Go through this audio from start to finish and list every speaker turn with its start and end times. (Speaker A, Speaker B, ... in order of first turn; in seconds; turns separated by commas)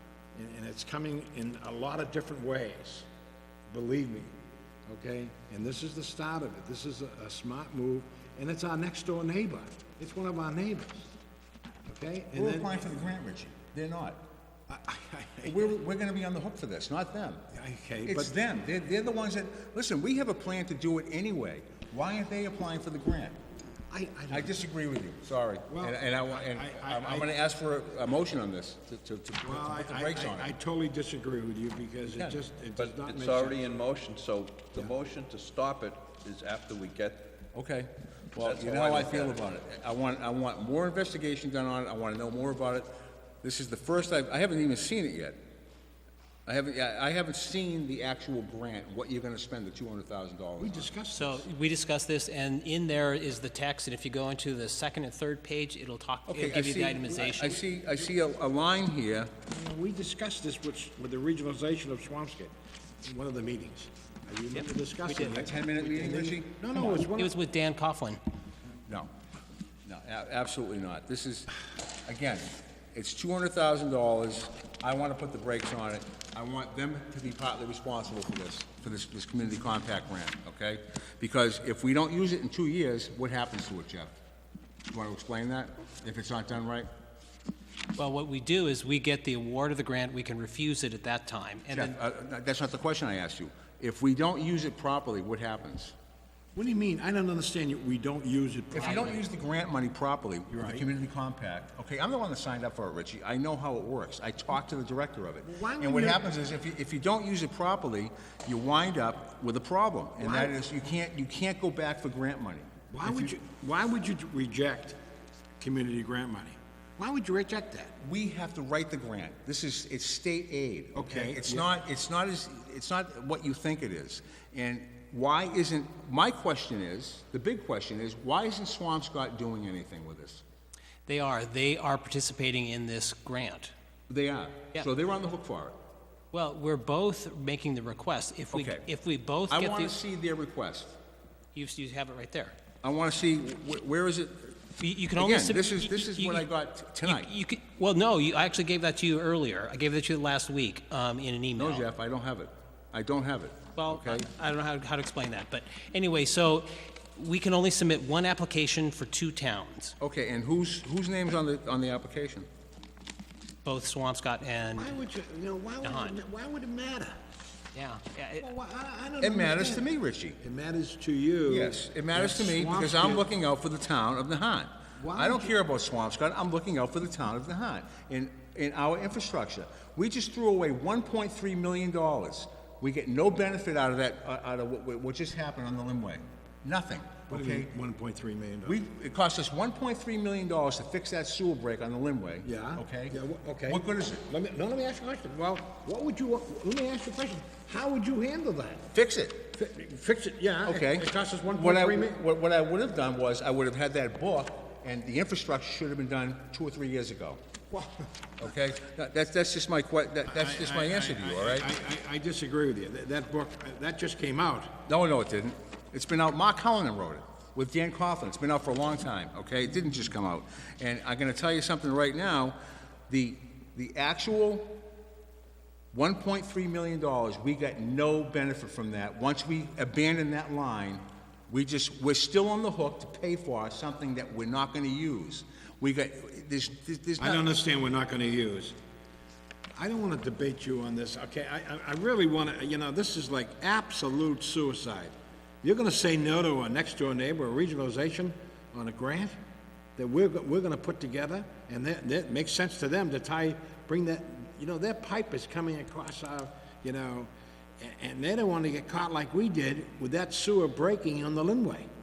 Speaker A: 0.3-3.1, Speaker A: 3.7-11.2, Speaker A: 11.8-12.8, Speaker B: 12.3-14.2, Speaker A: 14.7-15.7, Speaker B: 15.4-17.4, Speaker A: 17.5-18.3, Speaker B: 18.0-23.4, Speaker A: 23.9-24.5, Speaker B: 24.3-30.5, Speaker A: 25.7-27.3, Speaker A: 29.4-33.6, Speaker C: 32.8-37.4, Speaker B: 37.5-42.9, Speaker C: 38.4-39.4, Speaker B: 43.4-45.4, Speaker B: 46.5-50.9, Speaker A: 50.6-51.4, Speaker D: 51.1-57.6, Speaker B: 56.3-59.3, Speaker A: 59.5-62.5, Speaker A: 63.0-67.3, Speaker D: 64.5-65.3, Speaker B: 65.1-66.7, Speaker D: 66.7-68.2, Speaker B: 69.8-71.5, Speaker B: 72.0-84.2, Speaker B: 84.9-86.9, Speaker D: 88.0-92.0, Speaker B: 91.7-95.9, Speaker A: 96.5-99.2, Speaker B: 98.7-113.3, Speaker A: 100.5-100.9, Speaker A: 105.4-106.3, Speaker A: 110.2-110.5, Speaker A: 112.9-115.0, Speaker A: 115.6-118.0, Speaker B: 118.0-130.4, Speaker A: 120.9-121.7, Speaker D: 131.1-133.7, Speaker B: 134.1-135.7, Speaker D: 136.3-140.0, Speaker B: 138.5-138.8, Speaker B: 139.5-141.0, Speaker D: 141.5-142.5, Speaker B: 142.8-144.6, Speaker D: 144.8-146.5, Speaker B: 145.2-147.3, Speaker D: 147.0-151.9, Speaker B: 151.6-154.3, Speaker D: 153.8-159.9, Speaker B: 160.0-162.5, Speaker D: 163.6-164.9, Speaker A: 164.8-167.2, Speaker D: 165.8-166.2, Speaker D: 167.7-168.5, Speaker A: 168.4-169.8, Speaker B: 169.2-170.4, Speaker A: 170.4-173.3, Speaker B: 171.5-187.7, Speaker A: 175.0-175.5, Speaker A: 187.3-188.8, Speaker B: 188.6-194.2, Speaker A: 192.4-198.8, Speaker B: 198.9-199.5, Speaker A: 199.5-202.2, Speaker B: 200.6-207.4, Speaker A: 207.7-208.1, Speaker B: 208.4-211.7, Speaker A: 210.2-214.8, Speaker B: 214.8-222.6, Speaker B: 223.1-224.8, Speaker B: 225.9-237.4, Speaker A: 237.2-238.8, Speaker A: 239.8-249.4, Speaker A: 250.0-261.9